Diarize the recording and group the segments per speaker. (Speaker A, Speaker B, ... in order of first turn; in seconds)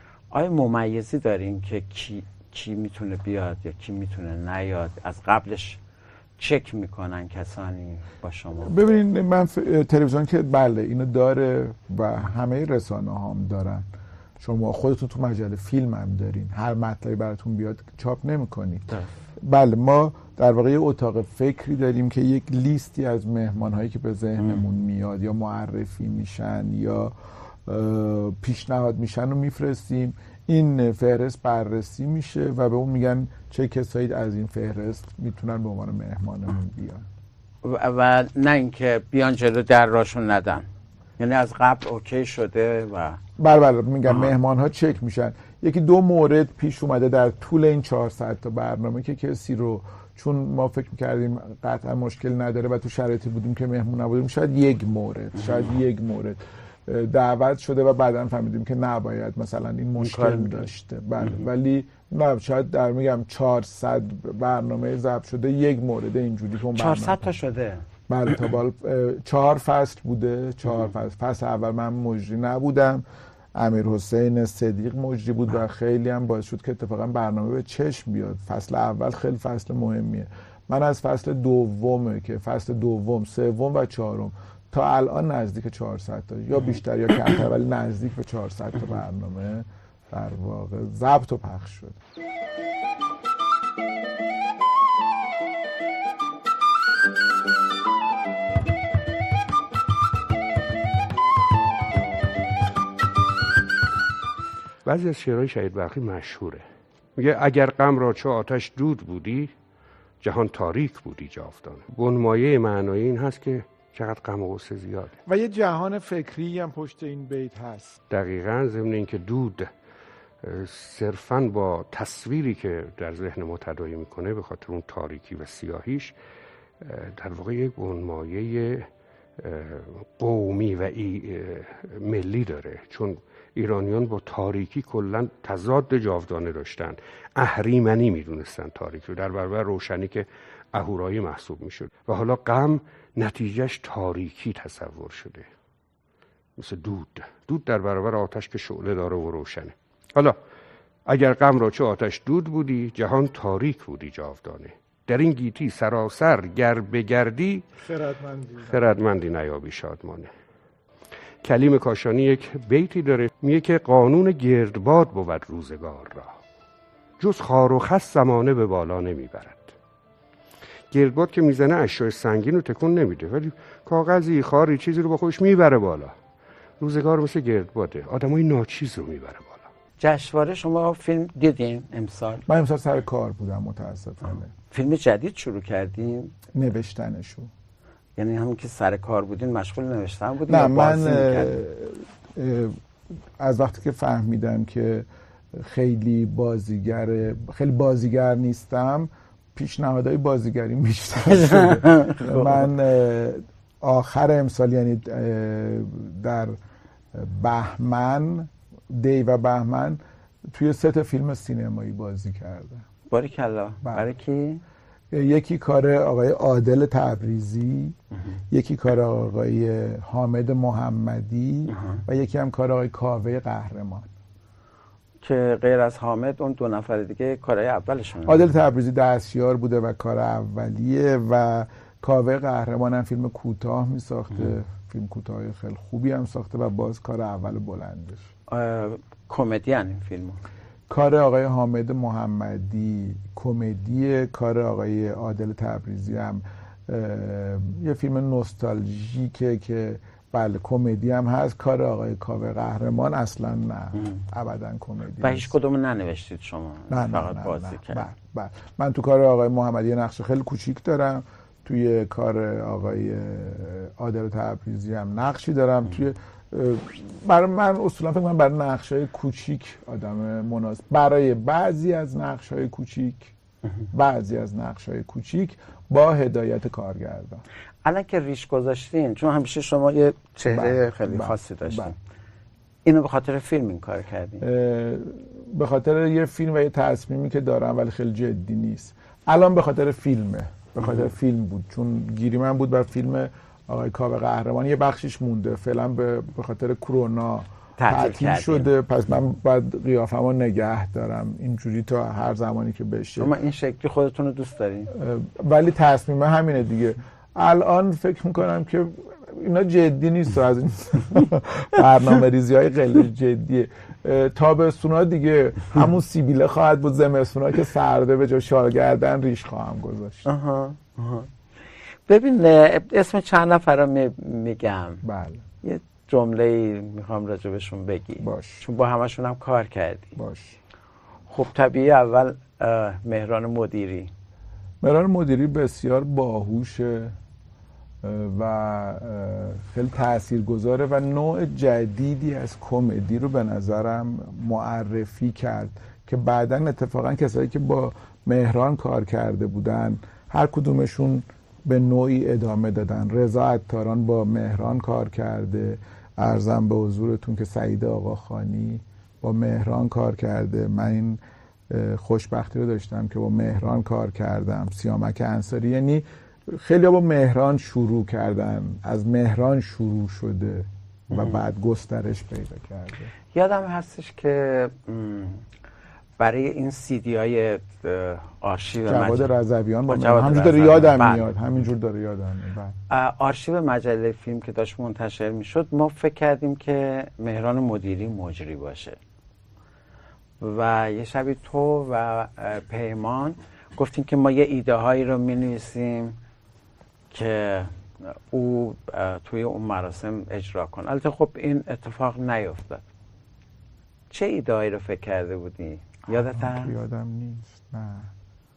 Speaker A: 0.3-5.8, 6.4-8.8, 18.9-19.2, 37.6-40.7, 41.2-43.2, 44.1-44.3, 55.4-55.7, 60.0-60.7, 66.8-67.9, 180.0-182.4, 184.6-186.4, 188.2-191.5, 201.2-202.7, 213.1-214.6, 221.7-222.0, 225.2-228.5, 238.5-240.4, 255.2-258.1, 277.9-282.0, 282.9-284.4, 290.8-291.1, 297.8-298.7, 303.2-304.9, 320.3-321.3, 322.1-325.0, 325.6-330.2, 331.3-334.1, 371.1-371.4, 373.3-375.4, 376.2-379.3, 379.9-381.3, 382.9-389.0, 390.4-396.2, 397.1-397.7, 398.3-402.9, 404.1-406.7
Speaker B: 8.6-13.9, 14.4-37.1, 43.4-67.2, 68.1-92.0, 115.3-118.0, 182.5-184.5, 186.5-187.5, 190.5-192.8, 193.4-206.6, 207.1-212.9, 215.1-218.0, 218.5-224.1, 228.3-238.3, 240.9-255.6, 256.9-273.3, 273.9-277.4, 280.4-281.9, 284.4-303.3, 304.9-320.3, 325.0-325.4, 328.2-328.6, 330.2-330.6, 334.8-337.1, 338.0-373.1, 378.9-382.8, 406.1-408.1
Speaker C: 104.8-106.6, 107.2-109.5, 110.2-115.2, 118.1-119.7, 120.4-126.2, 126.8-128.9, 129.4-145.5, 146.6-150.4, 151.1-157.6, 158.6-160.3, 161.4-166.3, 167.2-169.7, 170.9-176.1, 176.8-179.7